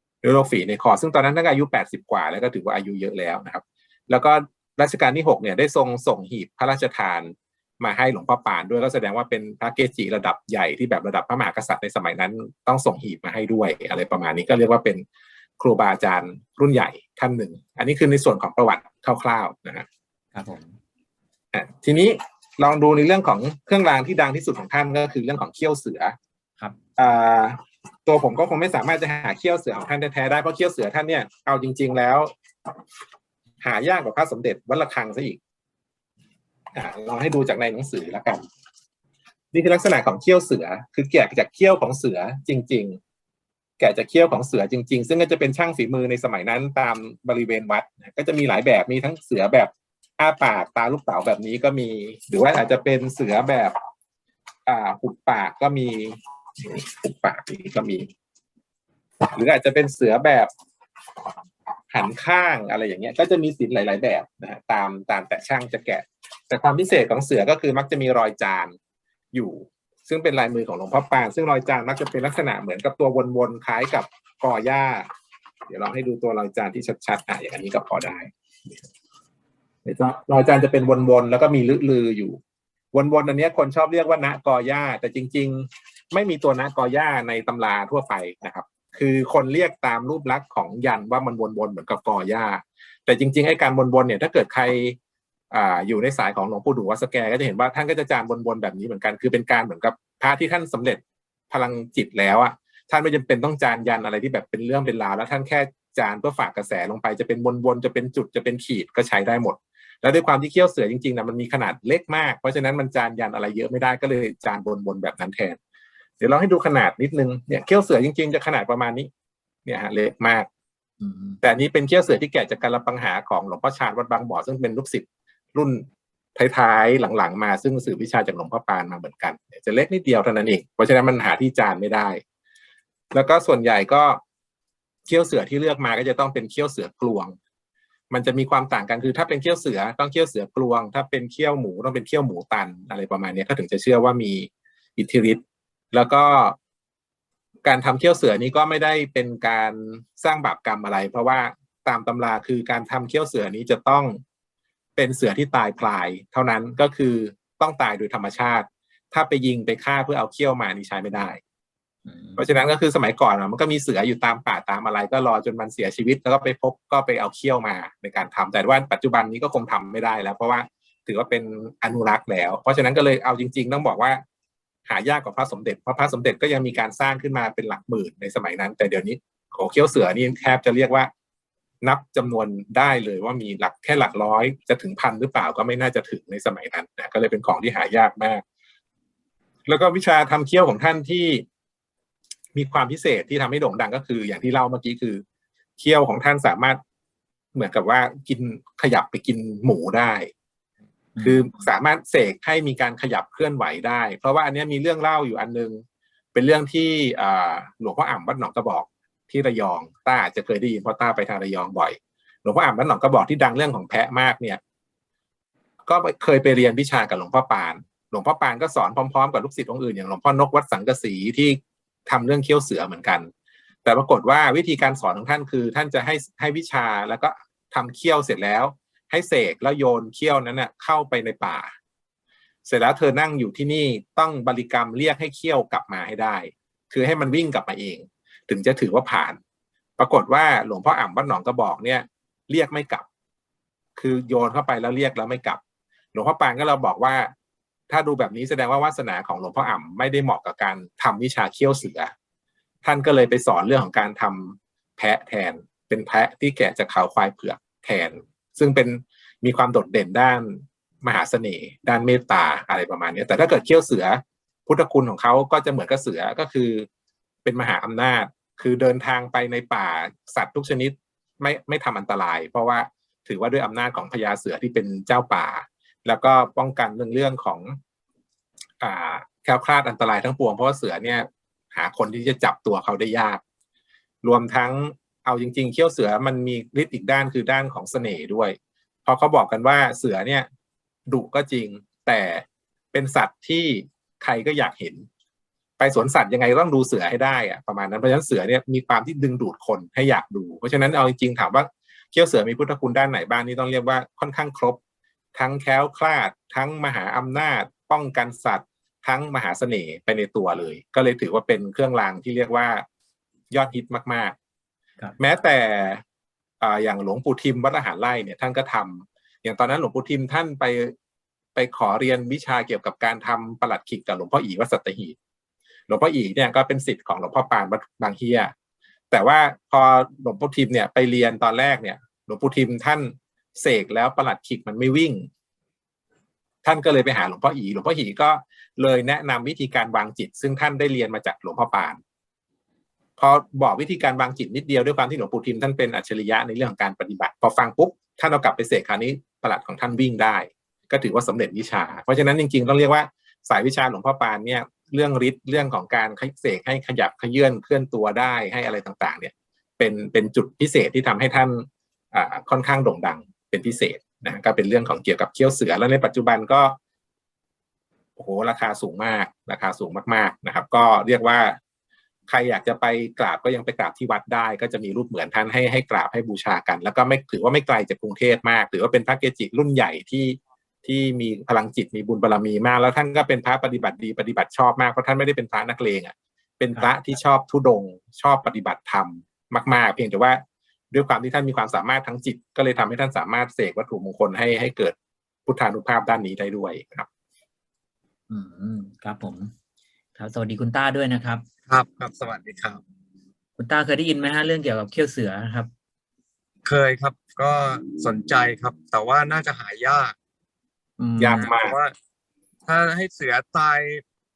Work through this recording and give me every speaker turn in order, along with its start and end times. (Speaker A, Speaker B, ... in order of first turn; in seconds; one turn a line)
Speaker A: 0.2-15.0
Speaker A: 15.6-19.9
Speaker B: 20.3-20.8
Speaker A: 21.5-26.1
Speaker A: 27.0-32.3
Speaker A: 33.6-35.4
Speaker A: 36.7-38.4
Speaker A: 39.5-43.0
Speaker A: 43.8-53.7
Speaker A: 54.6-58.1
Speaker A: 59.3-60.5
Speaker A: 61.9-68.7
Speaker A: 69.3-75.1
Speaker A: 75.7-78.8
Speaker A: 79.8-82.4
Speaker A: 82.9-95.0
Speaker A: 95.5-115.6
Speaker A: 116.2-119.1
Speaker A: 119.7-120.5
Speaker B: 121.0-121.4
Speaker A: 121.4-125.8
Speaker A: 126.3-132.2
Speaker A: 133.1-134.2
Speaker A: 135.1-137.3
Speaker A: 138.1-145.4
Speaker A: 145.9-146.6
Speaker A: 147.6-154.2
Speaker A: 154.9-161.4
Speaker B: 162.1-162.4
Speaker A: 162.4-174.2
Speaker A: 174.9-181.1
Speaker A: 181.8-188.4
Speaker A: 189.7-191.4
Speaker A: 192.5-195.2
Speaker A: 195.8-196.8
Speaker A: 197.5-200.3
Speaker B: 201.1-201.4
Speaker A: 201.2-205.8
Speaker A: 206.3-214.6
Speaker A: 215.9-223.3
Speaker A: 223.8-231.7
Speaker A: 232.7-239.4
Speaker A: 240.0-243.1
Speaker A: 244.0-245.6
Speaker A: 246.1-247.3
Speaker A: 247.9-252.1
Speaker A: 252.8-266.9
Speaker A: 267.4-277.8
Speaker A: 278.8-283.4
Speaker A: 284.2-290.5
Speaker A: 291.1-295.1
Speaker A: 295.8-304.8
Speaker A: 305.3-312.8
Speaker A: 313.5-314.3
Speaker A: 315.2-316.0
Speaker A: 316.6-320.9
Speaker A: 321.6-325.1
Speaker A: 325.9-328.5
Speaker A: 329.1-335.3
Speaker A: 336.6-342.0
Speaker A: 343.2-366.8
Speaker A: 368.2-371.6
Speaker A: 372.3-394.9
Speaker B: 386.7-387.1
Speaker A: 395.4-397.1
Speaker B: 398.3-399.5
Speaker B: 400.1-401.4
Speaker C: 401.7-402.8
Speaker B: 403.6-405.7
Speaker C: 406.6-410.1
Speaker B: 411.0-411.5
Speaker A: 411.2-411.8
Speaker C: 411.4-411.9
Speaker C: 412.6-414.0